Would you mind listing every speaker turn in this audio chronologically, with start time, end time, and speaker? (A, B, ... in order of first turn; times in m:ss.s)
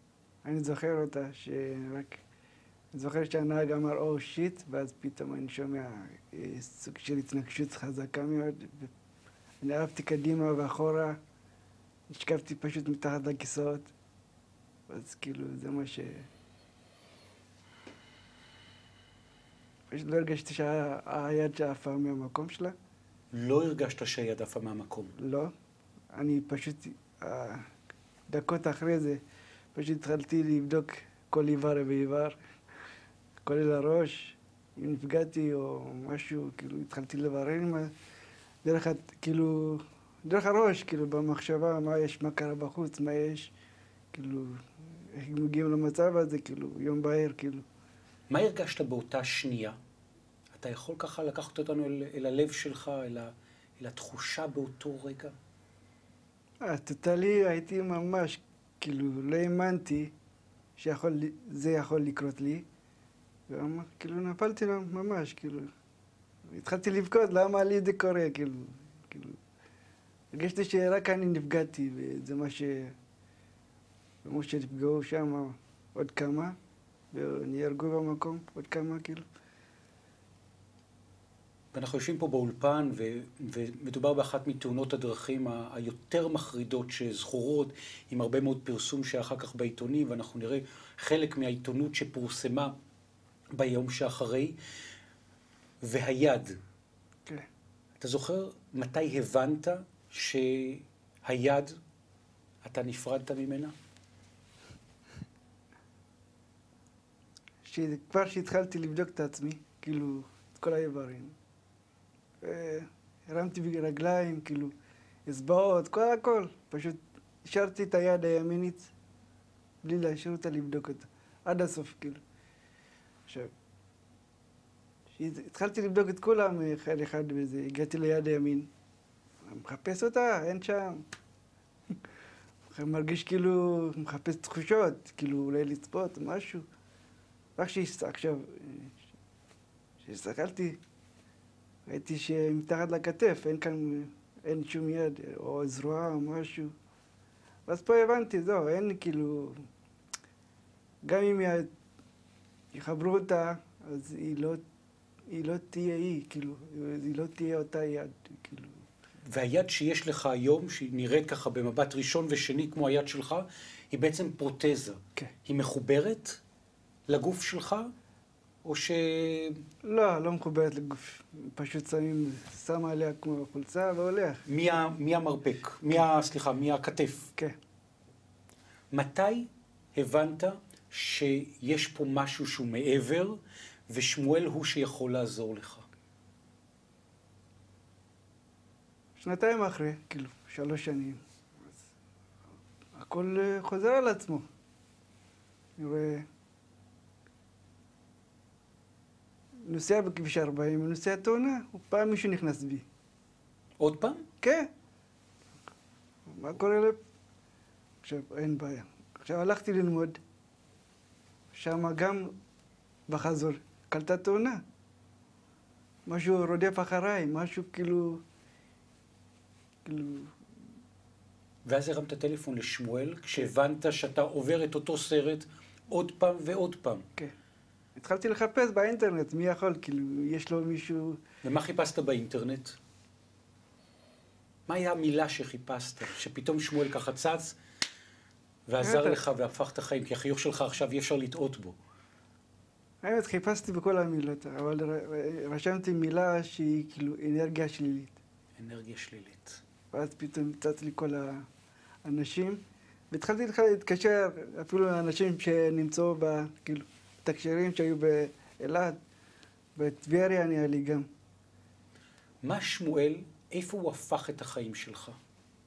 0:00.4-0:02.2 A
0:02.9-0:08.9 A
0:09.6-0:11.2 A
0:12.1-0:13.9 A
0:14.9-0:16.3 A
0:19.9-0:22.8 A
0:23.3-0:25.1 B
0:25.2-0:25.5 A
0:26.1-0:27.7 A
0:28.3-0:29.2 A
0:29.8-0:32.4 A
0:33.4-0:37.9 A
0:38.6-0:43.5 A
0:44.1-0:47.6 A
0:48.3-0:49.8 B
0:50.5-0:55.3 B
0:56.6-1:00.1 A
1:00.8-1:02.6 A
1:03.5-1:05.7 A
1:06.5-1:09.4 A
1:10.3-1:13.0 A
1:14.2-1:16.6 A
1:17.1-1:19.3 A
1:21.7-1:32.8 B
1:33.5-1:34.6 B
1:35.8-1:36.6 B
1:38.0-1:41.8 B
1:42.6-1:43.7 B
1:47.6-1:51.4 A
1:52.4-1:54.7 A
1:55.3-1:58.9 A
1:59.8-2:02.2 A
2:05.1-2:08.7 A
2:09.4-2:11.0 A
2:12.7-2:16.6 A
2:17.6-2:19.0 A
2:20.0-2:20.8 A
2:21.9-2:26.7 A
2:27.7-2:29.7 A
2:31.0-2:31.7 A
2:32.7-2:34.6 A
2:35.3-2:38.8 A
2:39.3-2:46.4 B
2:47.1-2:47.9 B
2:48.6-2:49.6 B
2:49.8-2:54.4 A
2:54.5-2:57.3 B
2:58.9-3:05.9 B
3:09.2-3:11.8 A
3:13.0-3:14.4 A
3:15.8-3:16.3 A
3:19.7-3:22.8 A
3:23.8-3:24.2 B
3:24.4-3:24.7 A
3:26.3-3:27.0 A
3:28.0-3:30.2 A
3:31.5-3:32.4 A
3:33.1-3:34.6 A
3:36.1-3:38.2 A
3:39.8-3:40.4 A
3:41.7-3:47.1 B
3:48.0-3:51.2 A
3:51.4-3:52.8 B
3:54.7-3:57.6 B
3:58.7-4:01.8 B
3:58.8-3:59.2 A
4:03.0-4:08.2 A
4:08.6-4:09.6 B
4:09.9-4:11.4 A
4:12.1-4:19.0 A
4:19.8-4:21.1 A
4:22.4-4:25.2 B